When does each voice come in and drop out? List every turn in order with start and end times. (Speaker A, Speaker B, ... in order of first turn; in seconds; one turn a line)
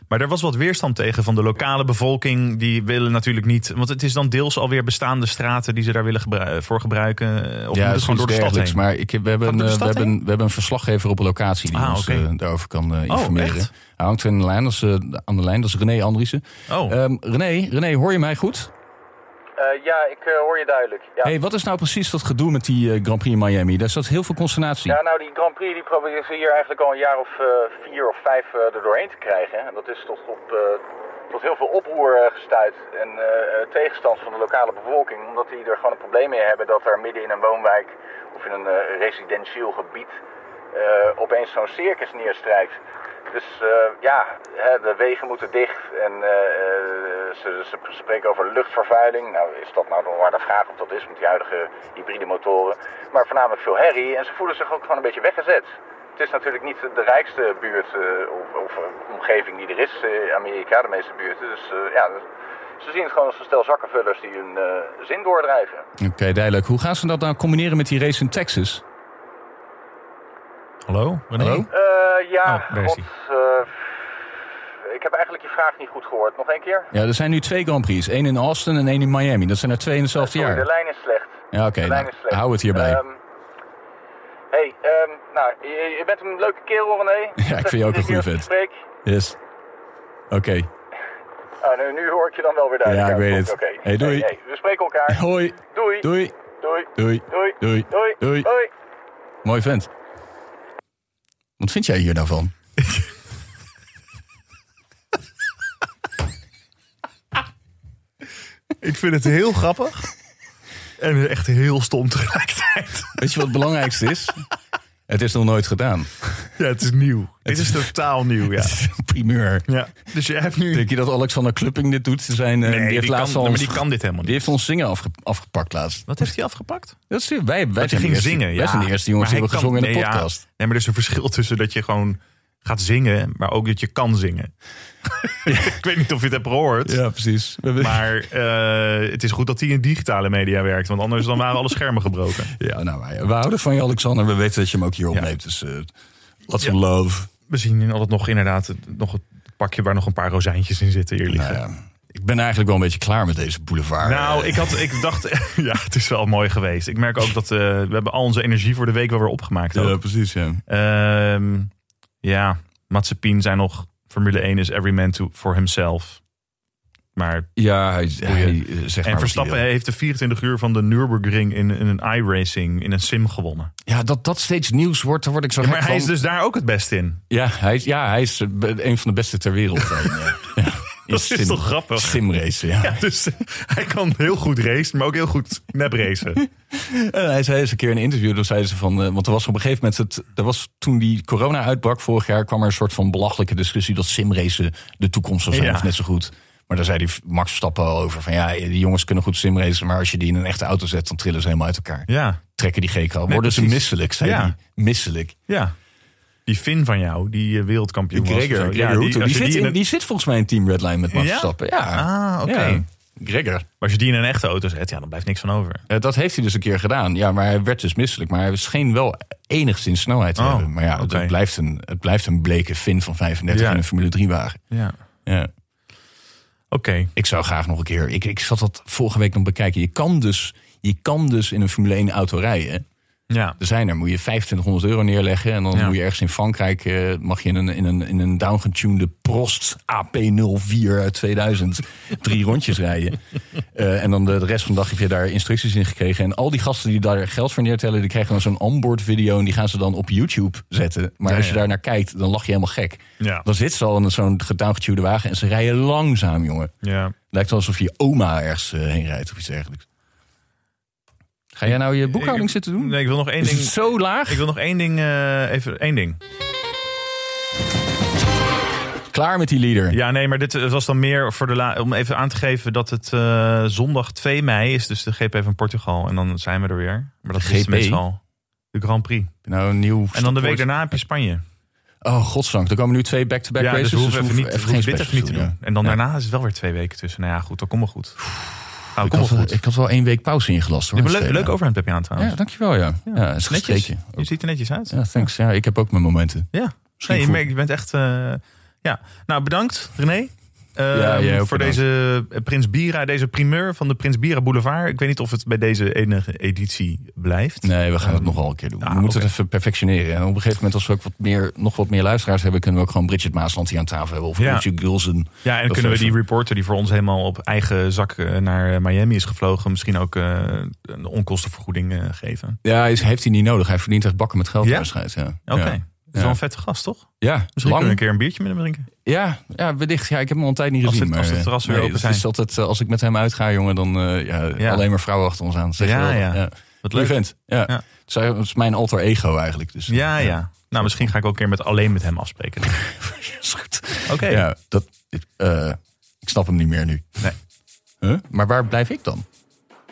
Speaker A: 0.1-8.8
Speaker B: 7.7-18.7
Speaker A: 9.4-10.1
Speaker A: 11.7-12.3
Speaker A: 13.1-13.7
Speaker A: 16.7-17.0
Speaker C: 19.6-21.3
Speaker B: 21.2-25.0
Speaker C: 24.9-40.2
Speaker C: 40.7-62.3
Speaker C: 62.8-65.9
Speaker B: 66.0-68.8
Speaker A: 70.9-71.7
Speaker B: 71.4-71.7
Speaker C: 71.7-74.0
Speaker A: 72.5-73.1
Speaker C: 74.8-76.9
Speaker B: 76.9-80.7
Speaker C: 80.1-83.2
Speaker B: 81.5-83.0
Speaker C: 84.5-88.8
Speaker B: 87.4-88.5
Speaker B: 89.0-89.4
Speaker B: 90.3-90.7
Speaker C: 91.6-98.7
Speaker B: 92.8-94.3
Speaker B: 95.1-96.4
Speaker B: 97.0-98.5
Speaker B: 99.4-99.9
Speaker B: 101.6-102.5
Speaker A: 108.8-110.1
Speaker A: 111.0-113.2
Speaker B: 113.2-114.4
Speaker B: 115.1-116.5
Speaker A: 116.6-118.8
Speaker B: 117.5-117.9
Speaker B: 118.5-119.7
Speaker A: 119.7-120.9
Speaker B: 120.7-126.1
Speaker A: 122.6-124.5
Speaker A: 126.1-127.0
Speaker B: 127.1-130.4
Speaker A: 127.8-134.5
Speaker A: 135.1-137.0
Speaker B: 135.5-135.8
Speaker B: 136.9-138.1
Speaker A: 137.8-142.5
Speaker B: 142.6-145.9
Speaker B: 146.5-147.3
Speaker A: 147.5-151.6
Speaker B: 151.3-155.0
Speaker A: 154.0-160.0
Speaker B: 159.7-160.6
Speaker A: 160.7-161.7
Speaker A: 162.2-166.2
Speaker A: 167.2-167.5
Speaker B: 167.6-169.6
Speaker A: 168.2-173.7
Speaker B: 173.9-176.1
Speaker A: 175.6-177.2
Speaker B: 177.3-183.0
Speaker A: 180.1-180.5
Speaker A: 181.1-182.2
Speaker A: 182.8-186.4
Speaker B: 186.4-205.4
Speaker A: 195.5-195.9
Speaker A: 202.1-202.4
Speaker A: 203.3-204.6
Speaker A: 205.5-205.7
Speaker A: 206.5-209.8
Speaker B: 208.1-213.7
Speaker A: 211.1-212.8
Speaker A: 213.8-215.8
Speaker B: 215.9-224.6
Speaker A: 220.4-221.3
Speaker A: 223.5-223.8
Speaker A: 224.7-225.0
Speaker B: 225.2-225.5
Speaker A: 226.7-227.1
Speaker B: 227.2-232.8
Speaker A: 233.3-233.6
Speaker B: 233.6-256.7
Speaker A: 251.2-251.6
Speaker A: 253.2-253.5
Speaker A: 256.8-257.1
Speaker B: 257.3-259.9
Speaker B: 261.5-264.4
Speaker A: 261.6-266.2
Speaker B: 269.1-270.0
Speaker A: 269.9-278.2
Speaker B: 277.3-278.0
Speaker A: 278.7-279.3
Speaker B: 279.4-280.8
Speaker A: 280.1-281.4
Speaker B: 282.0-286.0
Speaker A: 283.6-288.2
Speaker B: 288.3-291.5
Speaker A: 288.9-289.6
Speaker A: 291.0-292.4
Speaker B: 292.2-294.3
Speaker A: 293.1-295.3
Speaker B: 294.9-297.4
Speaker A: 296.5-309.3
Speaker B: 300.9-301.8
Speaker B: 307.6-316.2
Speaker A: 314.4-314.7
Speaker A: 315.4-322.6
Speaker B: 322.6-326.4
Speaker A: 324.6-324.9
Speaker A: 325.5-328.9
Speaker B: 327.2-328.0
Speaker B: 329.1-341.1
Speaker A: 330.8-332.2
Speaker A: 334.6-334.8
Speaker A: 335.8-337.8
Speaker A: 339.9-342.8
Speaker B: 342.7-347.3
Speaker A: 344.1-344.4
Speaker B: 348.0-349.2